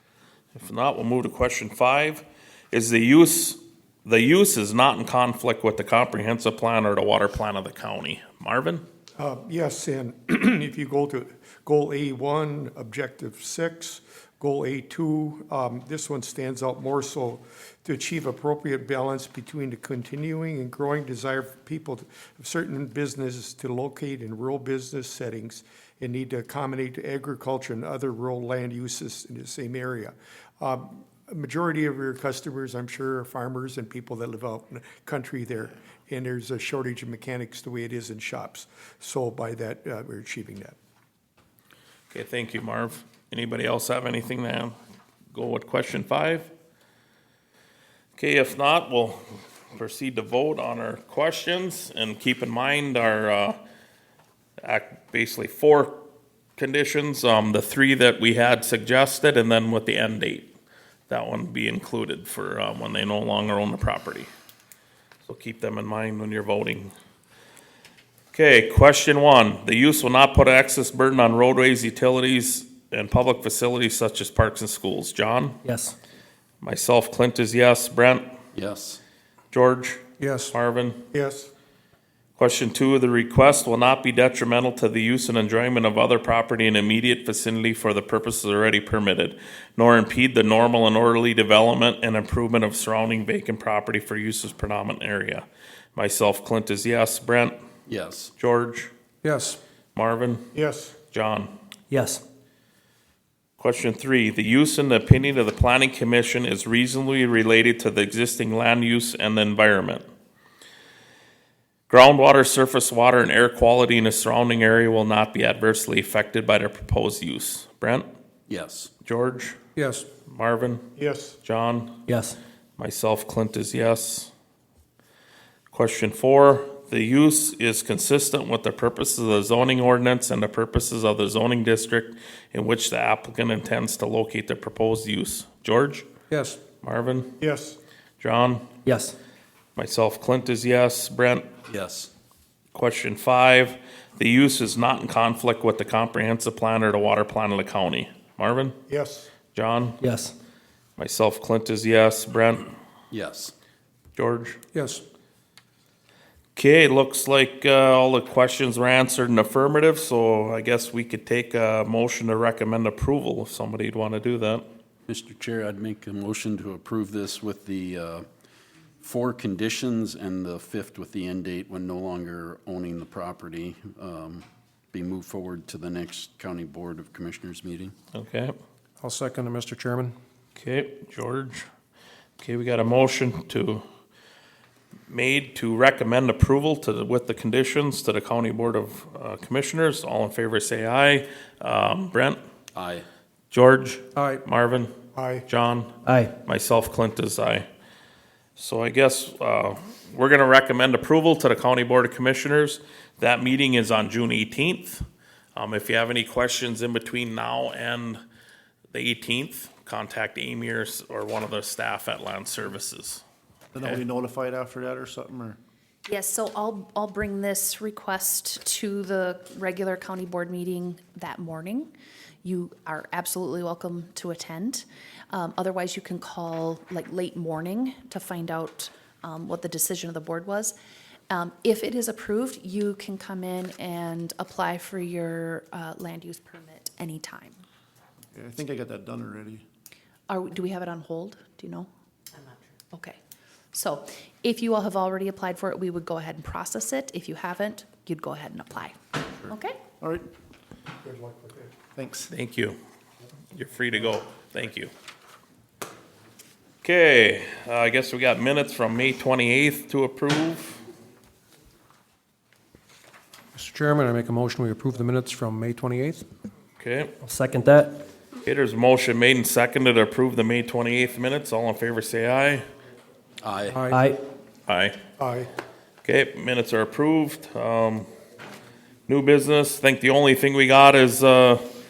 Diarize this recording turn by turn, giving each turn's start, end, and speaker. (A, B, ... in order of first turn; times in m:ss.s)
0:00.5-0:08.8 A
0:09.2-0:40.8 B
0:42.1-0:44.7 A
0:45.3-0:46.5 A
0:48.2-0:49.2 A
0:49.7-0:53.6 A
0:54.6-0:56.0 A
0:56.6-1:00.5 A
1:01.1-1:04.3 A
1:05.2-1:06.9 A
1:08.3-1:15.6 A
1:15.6-1:15.9 C
1:16.6-1:18.3 A
1:18.5-1:19.0 D
1:19.5-1:21.0 A
1:20.2-1:20.5 E
1:21.1-1:21.5 B
1:22.4-1:37.6 A
1:37.9-1:38.3 D
1:38.4-1:38.9 A
1:39.2-1:39.6 E
1:39.9-1:40.4 A
1:40.5-1:40.9 B
1:41.1-1:41.5 A
1:41.9-1:42.2 C
1:43.6-1:50.0 A
1:51.9-1:58.1 A
1:58.5-1:58.9 D
1:59.0-1:59.6 A
1:59.8-2:00.0 E
2:00.2-2:00.8 A
2:01.0-2:01.4 B
2:01.4-2:02.0 A
2:02.1-2:02.4 C
2:02.8-2:04.3 A
2:05.7-2:16.1 A
2:16.3-2:16.6 E
2:16.8-2:17.3 A
2:17.4-2:17.8 B
2:18.2-2:18.6 A
2:18.8-2:19.1 C
2:19.8-2:21.4 A
2:21.7-2:22.1 D
2:22.7-2:28.8 A
2:28.9-2:29.3 B
2:29.5-2:30.0 A
2:30.0-2:30.3 C
2:31.0-2:32.7 A
2:33.1-2:33.5 D
2:34.2-2:34.6 A
2:34.7-2:35.0 E
2:36.6-2:44.6 A
2:45.1-2:48.3 D
2:49.0-2:57.9 D
2:58.1-2:58.5 A
2:59.0-3:00.1 E
3:00.6-3:01.7 A
3:02.4-3:03.8 A
3:05.1-3:12.4 A
3:12.7-3:13.0 D
3:13.5-3:14.9 A
3:14.2-3:14.4 E
3:15.1-3:15.4 B
3:15.5-3:17.6 A
3:16.0-3:16.3 C
3:18.6-3:25.0 A
3:25.6-3:28.2 A
3:28.9-3:33.2 A
3:33.7-3:35.6 F
3:36.0-3:41.9 G
3:42.4-3:50.7 G
3:51.3-3:57.6 G
3:58.3-3:59.6 F
4:00.3-4:01.9 G
4:02.9-4:03.2 G
4:03.7-4:08.9 G
4:09.5-4:09.8 G
4:10.0-4:10.3 F
4:11.0-4:11.7 B
4:12.0-4:12.3 F
4:12.3-4:12.8 A
4:13.5-4:14.9 A
4:16.8-4:20.8 A
4:23.5-4:26.2 E
4:26.8-4:27.1 A
4:27.2-4:28.0 C
4:28.4-4:32.6 A
4:33.4-4:33.8 D
4:33.6-4:34.0 E
4:33.9-4:34.2 C
4:34.7-4:35.0 A
4:35.2-4:35.5 B
4:36.0-4:38.1 A
4:39.1-4:41.6 A